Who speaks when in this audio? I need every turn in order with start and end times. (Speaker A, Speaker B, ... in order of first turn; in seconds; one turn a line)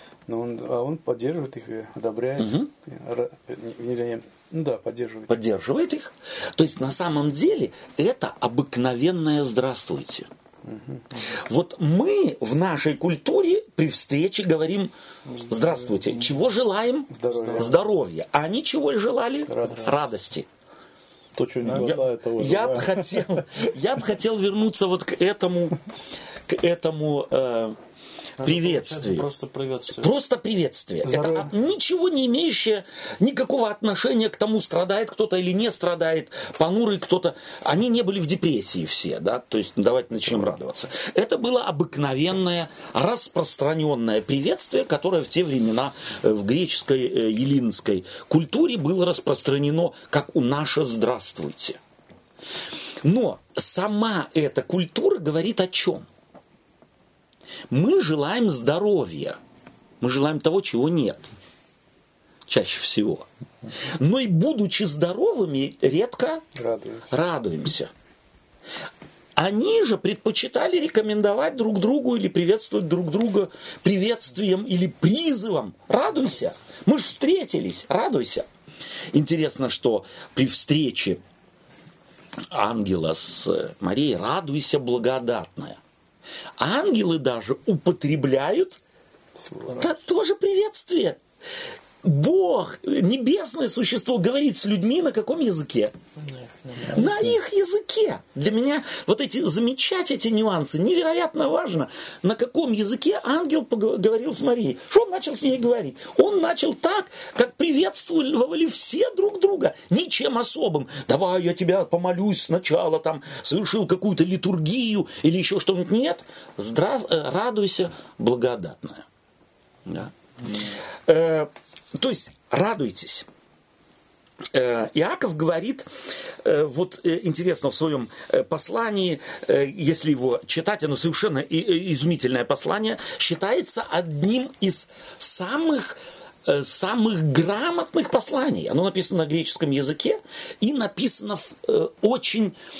Speaker A: 0.3-5.3
Speaker B: 2.4-2.7
Speaker B: 5.3-10.3
Speaker A: 10.6-11.1
Speaker B: 11.2-14.9
Speaker C: 15.3-16.4
Speaker B: 15.5-20.5
Speaker A: 17.1-17.9
Speaker C: 17.3-17.8
Speaker A: 19.5-20.1
Speaker D: 21.4-23.6
Speaker C: 21.6-22.0
Speaker B: 21.7-25.8
Speaker B: 26.5-27.8
Speaker C: 28.4-30.1
Speaker B: 28.4-29.3
Speaker B: 29.9-51.8
Speaker A: 31.0-31.5
Speaker B: 53.0-56.1
Speaker B: 57.7-59.4
Speaker B: 60.0-61.3
Speaker B: 62.5-63.3
Speaker B: 63.8-66.4
Speaker A: 66.6-67.2
Speaker B: 67.1-67.9
Speaker B: 69.4-78.5
Speaker B: 79.1-81.2
Speaker B: 82.5-85.8
Speaker B: 86.6-88.8
Speaker A: 89.4-89.9
Speaker B: 89.8-91.2
Speaker B: 92.0-95.9
Speaker C: 96.2-97.0
Speaker D: 96.8-97.3
Speaker B: 96.9-119.1
Speaker B: 119.9-123.3
Speaker B: 124.5-125.9
Speaker B: 126.4-142.6